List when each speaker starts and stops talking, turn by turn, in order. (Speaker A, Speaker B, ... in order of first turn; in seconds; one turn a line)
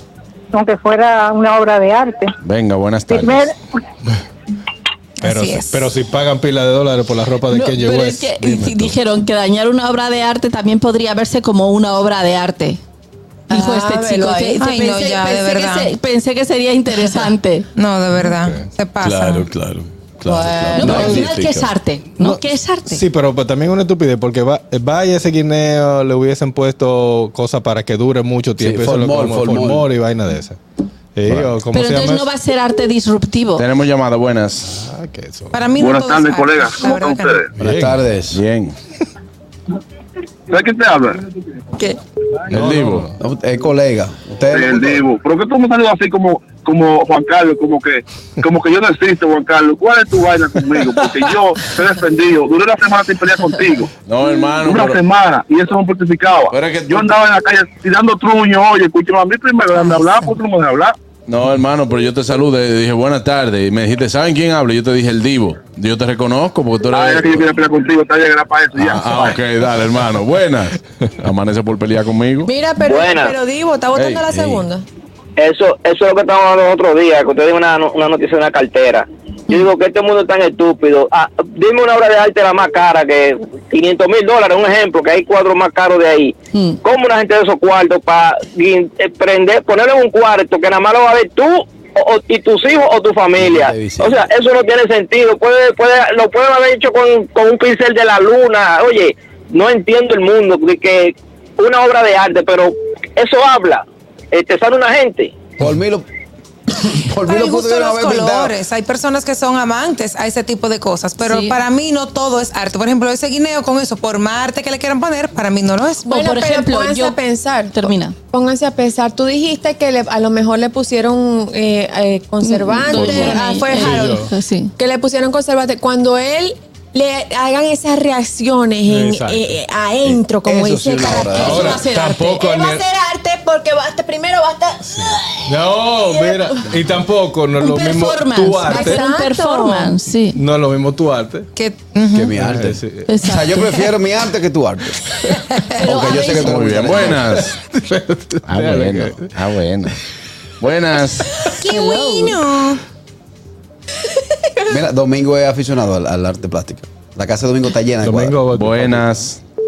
Speaker A: 0.5-2.3
Speaker B: 2.5-3.3
Speaker A: 3.1-3.5
Speaker C: 5.2-5.9
Speaker D: 5.2-8.9
Speaker E: 7.5-12.8
Speaker F: 13.5-14.6
Speaker E: 13.5-17.7
Speaker C: 14.6-15.9
Speaker C: 17.7-19.5
Speaker D: 18.2-18.6
Speaker B: 19.0-19.3
Speaker F: 20.2-21.1
Speaker D: 20.4-21.4
Speaker E: 20.8-23.0
Speaker B: 20.9-21.4
Speaker D: 22.2-30.6
Speaker G: 28.6-29.9
Speaker D: 31.1-32.2
Speaker E: 31.7-33.7
Speaker B: 33.6-34.5
Speaker D: 34.7-35.6
Speaker C: 35.5-37.4
Speaker H: 35.8-37.5
Speaker D: 37.6-38.0
Speaker G: 37.6-38.4
Speaker H: 40.5-41.2
Speaker D: 42.5-43.1
Speaker B: 42.5-43.0
Speaker G: 43.2-45.1
Speaker H: 44.5-61.0
Speaker B: 54.1-54.9
Speaker B: 56.5-57.0
Speaker B: 61.3-67.5
Speaker H: 66.9-69.4
Speaker B: 68.8-70.5
Speaker B: 71.2-72.5
Speaker F: 72.5-74.8
Speaker I: 72.9-73.3
Speaker B: 74.0-74.5
Speaker I: 75.4-105.4
Speaker G: 93.3-94.3
Speaker G: 105.6-106.0
Speaker G: 106.7-108.5
Speaker C: 107.2-116.1
Speaker E: 111.2-111.6
Speaker F: 116.0-131.9
Speaker E: 116.1-117.2
Speaker E: 117.7-118.2
Speaker E: 122.4-124.7
Speaker G: 123.0-123.3
Speaker D: 123.7-124.3
Speaker D: 128.9-129.5
Speaker G: 130.0-131.8
Speaker D: 131.3-132.8
Speaker E: 131.4-132.5
Speaker F: 132.6-135.1
Speaker D: 134.9-139.0
Speaker E: 137.6-140.4
Speaker F: 138.7-140.0
Speaker D: 140.3-141.5
Speaker C: 141.5-142.3
Speaker G: 142.1-145.0
Speaker D: 142.3-143.1
Speaker E: 143.1-143.9
Speaker G: 145.7-147.3
Speaker E: 145.8-147.2
Speaker D: 146.3-149.5
Speaker B: 146.5-147.4
Speaker B: 148.5-149.7
Speaker B: 150.6-151.2
Speaker E: 151.5-152.4
Speaker C: 151.6-152.8
Speaker G: 154.7-158.4
Speaker D: 158.0-159.3
Speaker B: 158.6-159.2